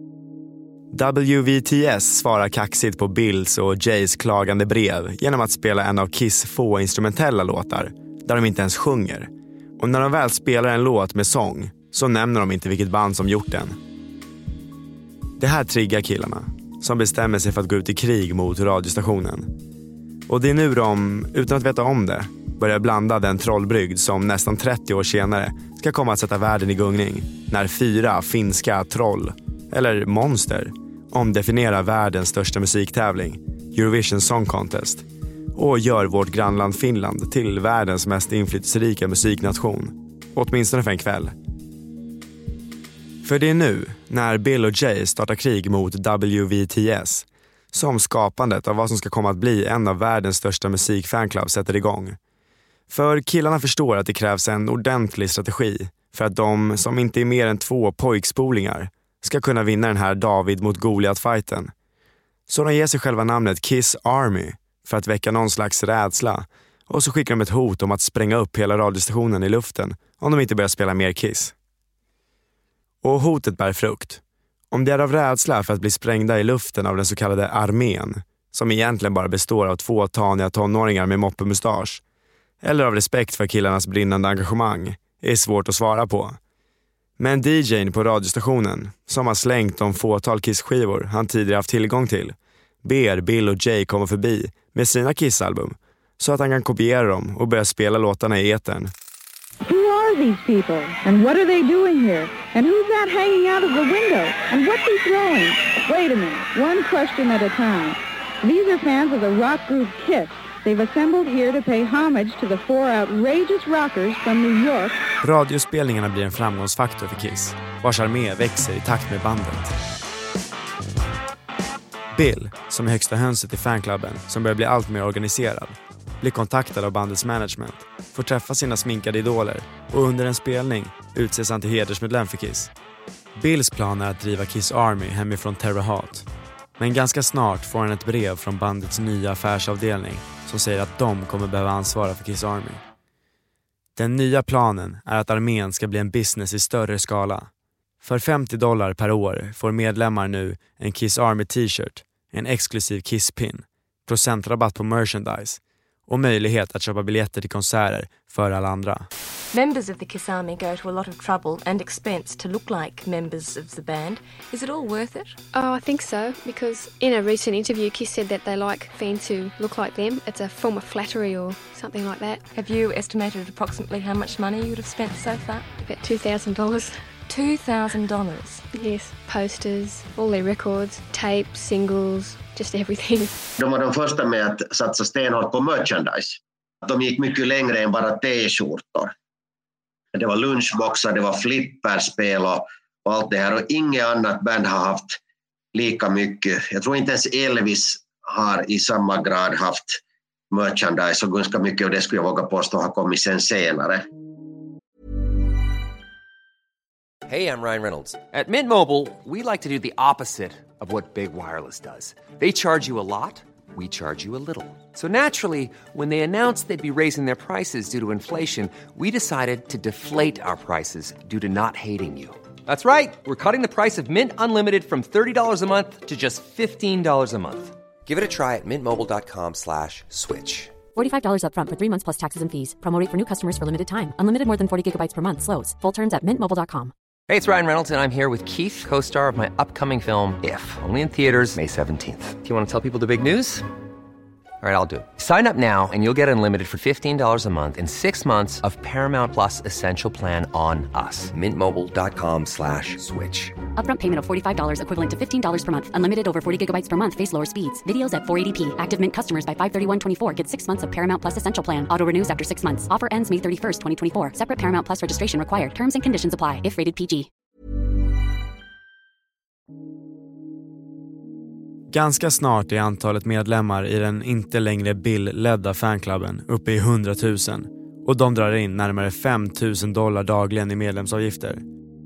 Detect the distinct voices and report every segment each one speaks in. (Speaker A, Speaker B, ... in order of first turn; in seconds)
Speaker A: 0.9-13.8, 15.4-19.5, 20.3-41.3, 43.2-52.2, 52.9-61.7, 62.5-71.5, 73.0-82.0, 82.6-86.4, 87.2-98.9, 115.2-119.8, 122.1-132.7, 133.3-142.8, 143.9-147.5, 148.0-159.1, 271.9-281.6
Speaker B: 99.6-115.0
Speaker C: 159.5-165.4, 172.5-175.7, 177.3-178.6
Speaker D: 165.5-172.4, 175.8-177.1, 178.7-183.4
Speaker E: 183.6-189.1, 190.1-195.2, 195.7-204.0
Speaker F: 207.2-230.7, 237.3-243.7, 244.6-253.6
Speaker G: 230.9-236.9, 253.8-267.3